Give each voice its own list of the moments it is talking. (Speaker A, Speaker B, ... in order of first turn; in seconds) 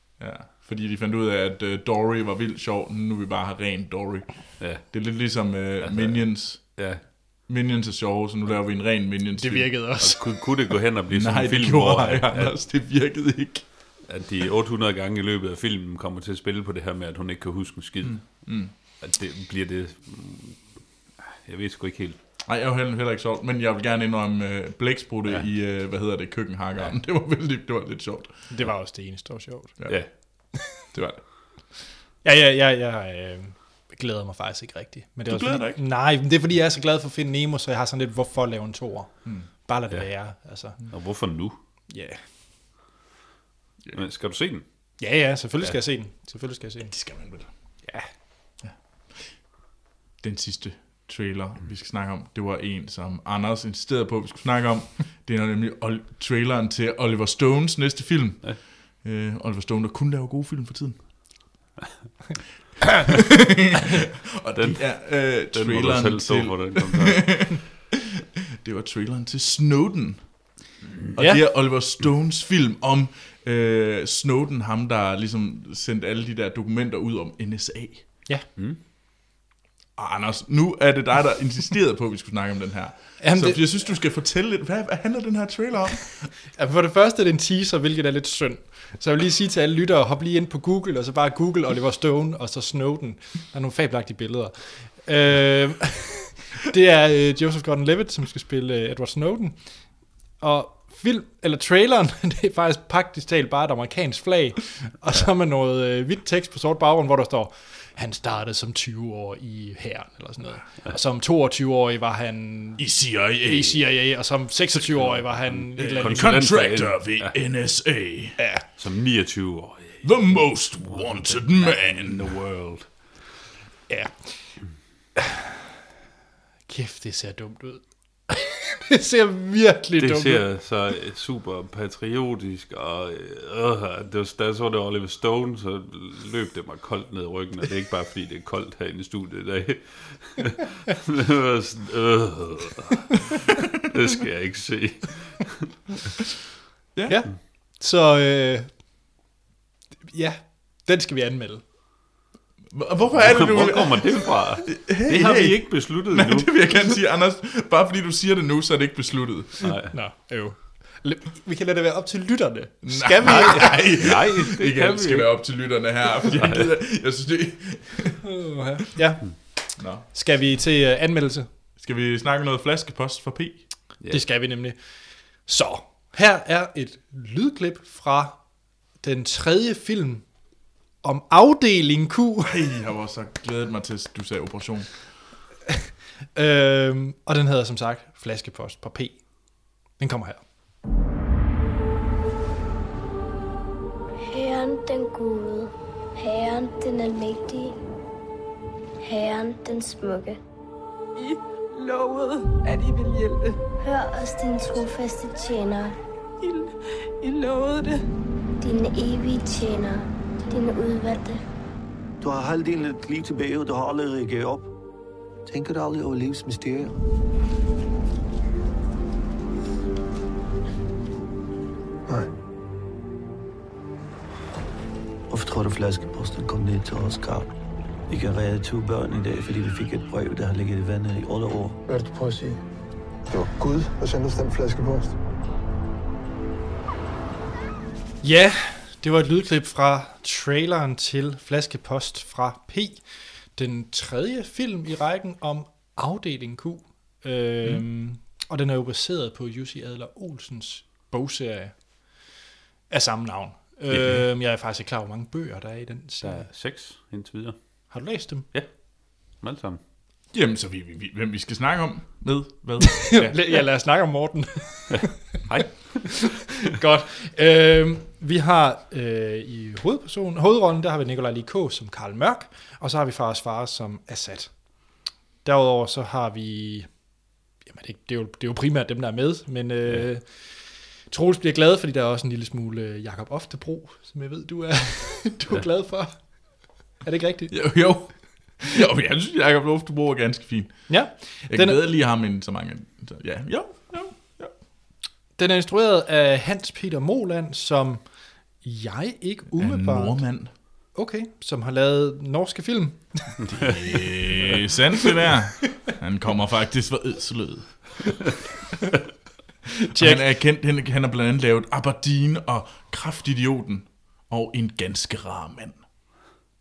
Speaker A: 0.2-9.8, 11.1-14.0, 18.0-18.7, 22.4-28.5, 29.8-31.3, 35.3-35.8, 39.2-39.5, 46.9-47.9, 48.6-49.5, 50.2-61.5, 64.4-67.8, 68.6-78.3, 80.0-86.3, 112.8-113.9, 115.8-118.4, 120.0-122.4, 146.9-147.3, 152.7-159.7, 162.8-168.2, 169.8-170.1, 171.8-173.8, 182.4-185.2, 260.3-263.6, 287.5-294.6, 299.6-300.5, 303.5-308.2, 310.0-315.9
Speaker B: 4.6-7.0, 10.0-12.6, 14.1-22.2, 29.2-30.1, 39.9-40.4, 40.9-41.6, 43.9-45.0, 64.5-67.6, 115.0-117.6, 118.8-123.2, 130.0-143.0, 143.9-145.6, 153.1-156.8, 159.6-159.9, 163.2-165.9, 174.0-174.3, 253.9-254.2, 256.2-259.8, 265.5-266.3
Speaker C: 9.4-10.6, 28.5-30.4, 32.2-41.3, 41.9-42.2, 45.0-47.1, 47.8-48.1, 71.2-71.5, 83.2-83.8, 86.5-116.3, 118.4-118.6, 123.9-124.7, 126.7-130.6, 147.1-148.8, 150.1-151.7, 159.9-164.0, 168.2-171.5, 174.1-182.6, 186.3-190.4, 238.2-252.3, 252.9-256.5, 257.9-258.5, 263.2-265.1, 266.7-288.4, 290.9-291.8, 295.4-303.9, 309.9-310.2
Speaker D: 194.3-197.8, 199.0-200.4, 203.8-205.9, 208.6-211.4
Speaker E: 201.7-203.6, 206.4-208.0
Speaker F: 212.2-214.7, 215.5-216.9, 225.3-227.5, 228.1-231.8
Speaker G: 231.9-232.6, 233.3-235.2